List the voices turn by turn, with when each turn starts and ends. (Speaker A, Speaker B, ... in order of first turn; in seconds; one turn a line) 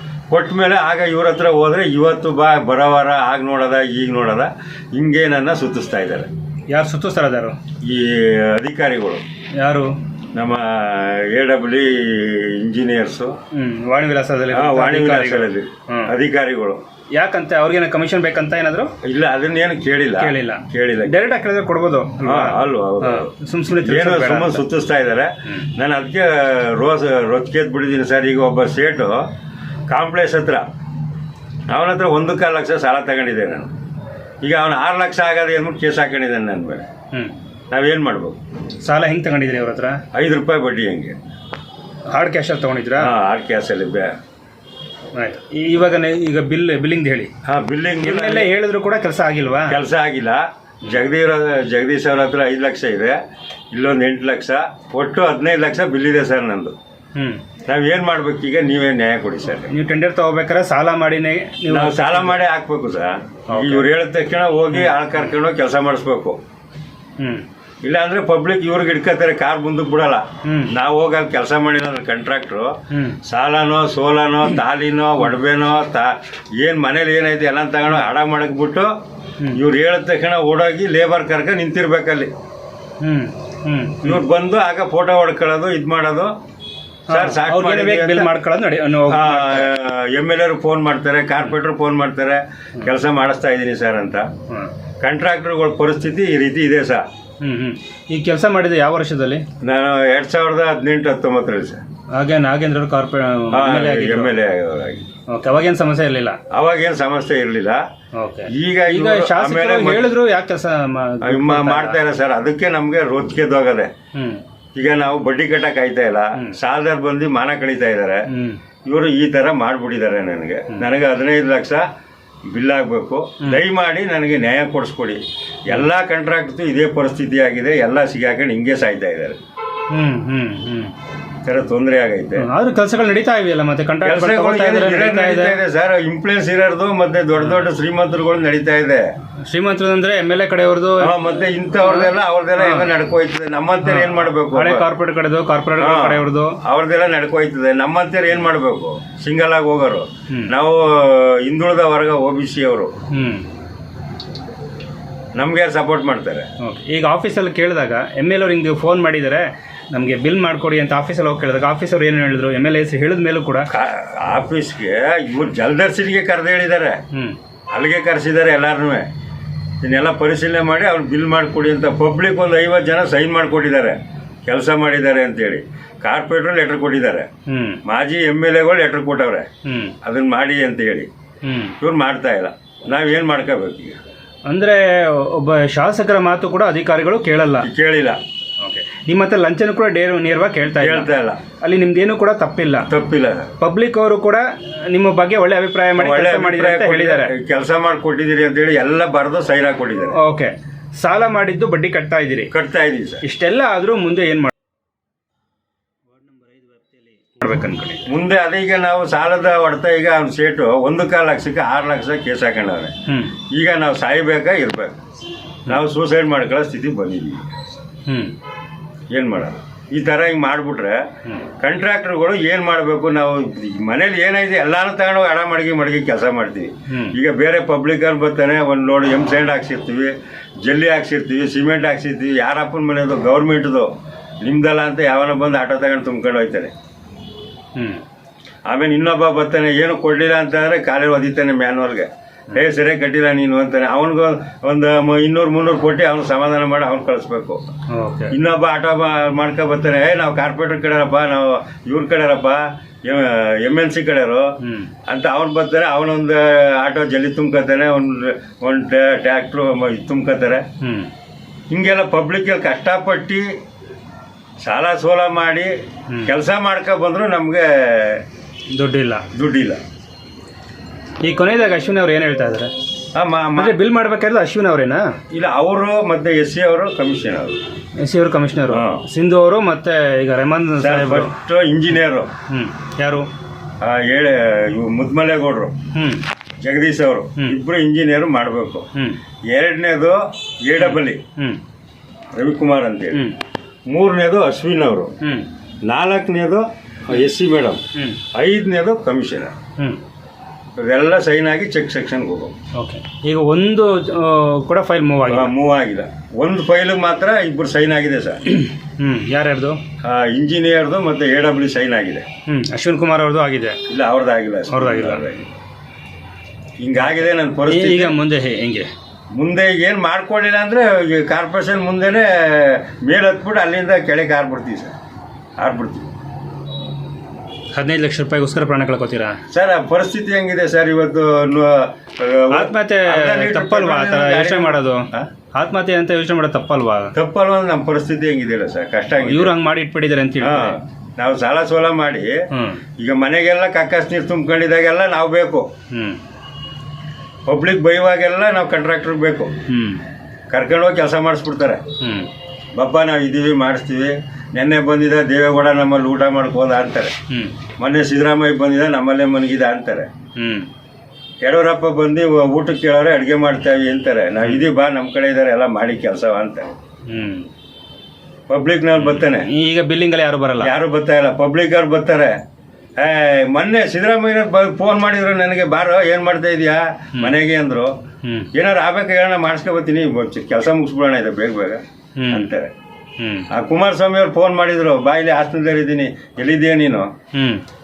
Speaker A: 0.3-6.3
Speaker B: 6.7-7.6
Speaker A: 7.8-9.2
Speaker B: 9.6-9.9
Speaker A: 10.3-13.4
Speaker B: 13.5-16.1
Speaker A: 14.5-16.8
Speaker B: 17.1-18.9
Speaker A: 19.0-21.1
Speaker B: 20.2-24.6
Speaker A: 22.2-29.3
Speaker A: 29.9-30.6
Speaker A: 31.7-33.7
Speaker A: 34.4-36.9
Speaker A: 37.7-38.4
Speaker B: 38.8-40.0
Speaker A: 40.1-41.2
Speaker B: 42.1-43.1
Speaker A: 43.0-44.1
Speaker B: 45.1-47.3
Speaker A: 47.5-48.5
Speaker B: 48.0-49.8
Speaker A: 49.7-53.2
Speaker A: 53.7-56.8
Speaker B: 57.1-57.4
Speaker A: 57.6-59.7
Speaker B: 59.6-62.4
Speaker A: 61.7-66.4
Speaker B: 63.5-63.9
Speaker B: 67.2-67.5
Speaker A: 67.8-78.9
Speaker B: 70.4-70.7
Speaker B: 72.9-73.2
Speaker A: 79.5-82.3
Speaker B: 83.0-84.2
Speaker A: 84.0-86.3
Speaker A: 87.1-88.3
Speaker B: 87.1-89.7
Speaker A: 89.1-94.3
Speaker A: 95.0-97.0
Speaker B: 97.4-99.5
Speaker A: 99.6-101.8
Speaker B: 102.1-104.3
Speaker A: 103.5-105.1
Speaker B: 105.3-106.4
Speaker A: 106.5-107.8
Speaker B: 108.1-112.0
Speaker A: 108.5-110.1
Speaker A: 111.2-113.9
Speaker B: 114.2-114.4
Speaker A: 114.8-118.3
Speaker B: 118.3-118.6
Speaker A: 118.8-121.9
Speaker A: 122.5-129.4
Speaker B: 129.9-130.9
Speaker A: 131.4-132.5
Speaker B: 132.4-135.6
Speaker A: 134.0-139.1
Speaker B: 139.5-141.2
Speaker A: 141.0-144.9
Speaker B: 141.8-142.9
Speaker B: 143.8-146.6
Speaker A: 145.8-152.9
Speaker B: 153.1-153.5
Speaker A: 155.3-156.5
Speaker B: 156.6-163.7
Speaker A: 163.7-167.0
Speaker B: 167.1-167.4
Speaker A: 167.7-169.1
Speaker A: 169.8-177.3
Speaker B: 177.5-177.8
Speaker A: 177.8-179.5
Speaker B: 179.7-179.9
Speaker A: 180.0-181.1
Speaker B: 181.4-181.8
Speaker A: 181.8-184.0
Speaker B: 184.5-187.7
Speaker A: 187.6-188.2
Speaker B: 188.6-192.9
Speaker A: 190.7-191.4
Speaker A: 192.9-193.5
Speaker B: 193.6-197.3
Speaker A: 196.0-200.2
Speaker B: 200.1-202.5
Speaker A: 202.5-203.2
Speaker B: 203.2-204.5
Speaker B: 206.1-208.1
Speaker A: 208.1-212.9
Speaker B: 213.1-213.3
Speaker A: 213.5-215.0
Speaker A: 215.7-217.5
Speaker B: 218.1-218.3
Speaker A: 219.1-233.9
Speaker B: 226.9-227.2
Speaker A: 234.4-236.7
Speaker B: 237.8-238.0
Speaker A: 238.7-247.6
Speaker B: 247.9-248.3
Speaker A: 248.3-254.5
Speaker B: 254.6-254.9
Speaker A: 255.1-260.6
Speaker B: 260.8-261.1
Speaker A: 261.7-263.5
Speaker A: 264.6-265.7
Speaker A: 266.2-268.2
Speaker B: 268.7-269.2
Speaker A: 269.3-269.8
Speaker B: 271.2-272.7
Speaker A: 273.1-273.8
Speaker B: 273.6-275.1
Speaker A: 275.3-277.6
Speaker B: 278.0-281.3
Speaker A: 278.7-279.0
Speaker A: 280.8-282.3
Speaker B: 282.5-283.3
Speaker A: 283.8-285.8
Speaker B: 285.9-286.2
Speaker A: 286.6-288.9
Speaker A: 289.5-291.2
Speaker B: 290.8-291.6
Speaker A: 292.4-293.3
Speaker A: 293.9-295.1
Speaker B: 295.2-295.5
Speaker A: 295.9-297.8
Speaker B: 297.9-298.2
Speaker A: 298.3-299.5
Speaker A: 300.8-302.6
Speaker B: 302.8-305.5
Speaker A: 305.3-308.4
Speaker B: 308.5-309.8
Speaker A: 310.0-312.3
Speaker B: 312.5-313.8
Speaker A: 313.9-315.5
Speaker B: 314.7-315.3
Speaker A: 316.8-318.2
Speaker B: 317.0-318.9
Speaker A: 319.3-324.9
Speaker A: 325.6-326.1
Speaker B: 327.7-329.4
Speaker A: 329.5-335.3
Speaker B: 332.5-337.1
Speaker A: 337.1-339.6
Speaker B: 339.2-340.8
Speaker A: 340.4-342.5
Speaker B: 342.5-342.8
Speaker A: 343.0-345.7
Speaker B: 345.9-346.2
Speaker A: 347.5-349.5
Speaker B: 349.7-350.0
Speaker A: 350.5-351.8
Speaker B: 352.0-352.3
Speaker A: 352.8-357.2
Speaker B: 357.3-357.6
Speaker A: 357.8-360.1
Speaker B: 360.4-360.7
Speaker A: 361.4-366.7
Speaker B: 367.1-367.5
Speaker A: 368.5-369.5
Speaker B: 369.0-370.7
Speaker A: 370.6-372.4
Speaker A: 373.0-377.9
Speaker B: 378.2-378.5
Speaker A: 378.5-382.7
Speaker B: 382.2-382.5
Speaker B: 383.2-383.5
Speaker A: 383.5-387.1
Speaker B: 387.3-387.6